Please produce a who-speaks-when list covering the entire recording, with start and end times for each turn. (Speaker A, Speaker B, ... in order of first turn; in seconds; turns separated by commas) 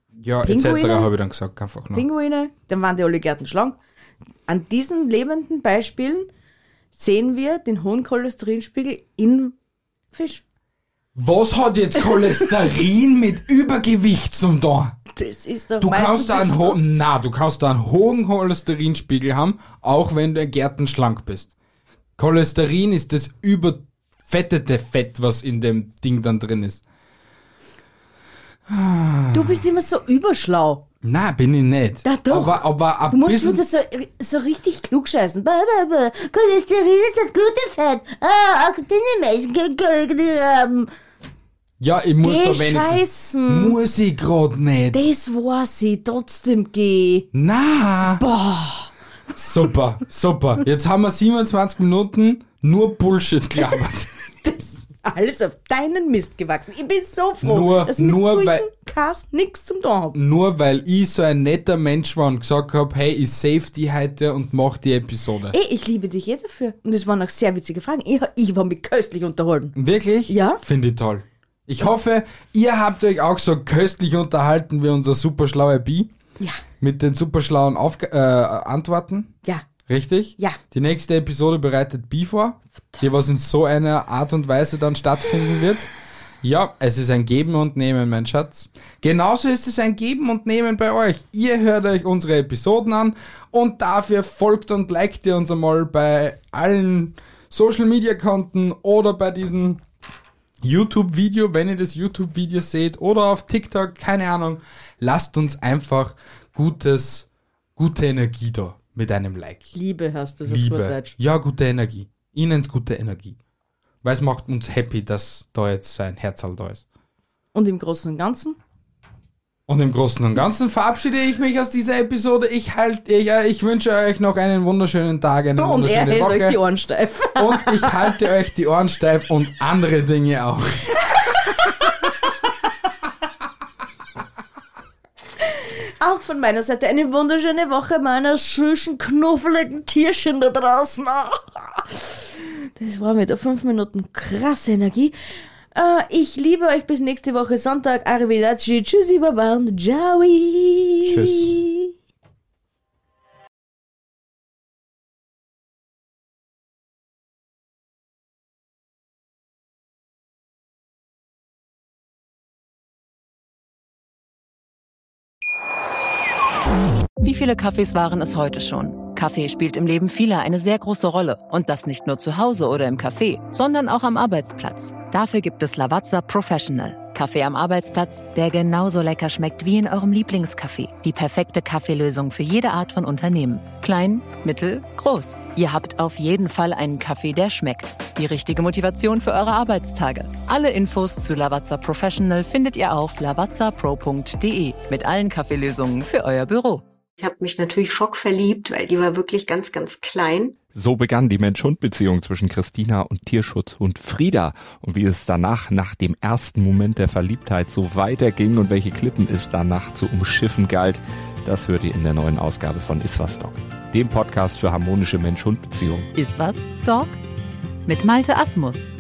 Speaker A: 0.2-2.0, Speaker B: 0.4-1.1, Speaker B: 1.9-3.8, Speaker B: 4.5-6.3, Speaker B: 7.0-9.6, Speaker B: 10.1-10.4, Speaker A: 11.2-15.0, Speaker B: 15.1-16.8, Speaker A: 15.8-21.5, Speaker A: 22.2-26.8, Speaker A: 28.7-29.6, Speaker B: 29.3-30.8, Speaker A: 31.0-33.6, Speaker B: 32.0-40.9, Speaker A: 41.8-45.1, Speaker B: 42.2-43.8, Speaker B: 44.9-47.3, Speaker A: 47.3-48.2, Speaker B: 48.1-48.9, Speaker A: 49.4-54.1, Speaker B: 54.4-60.2, Speaker A: 57.4-58.7, Speaker A: 60.1-65.6, Speaker B: 65.5-69.8, Speaker A: 69.8-76.1, Speaker B: 70.3-70.6, Speaker A: 76.8-79.3, Speaker A: 79.9-99.8, Speaker A: 100.6-109.7, Speaker B: 109.7-111.1, Speaker A: 110.5-113.4, Speaker A: 114.0-116.8, Speaker B: 117.5-118.6, Speaker A: 119.7-126.6, Speaker B: 125.6-128.2, Speaker A: 127.4-131.9, Speaker B: 135.4-145.2, Speaker B: 145.7-151.9, Speaker A: 151.1-151.6, Speaker C: 167.2-196.8, Speaker D: 197.2-200.6, Speaker E: 200.7-216.1, Speaker C: 216.2-217.2, Speaker C: 217.9-218.9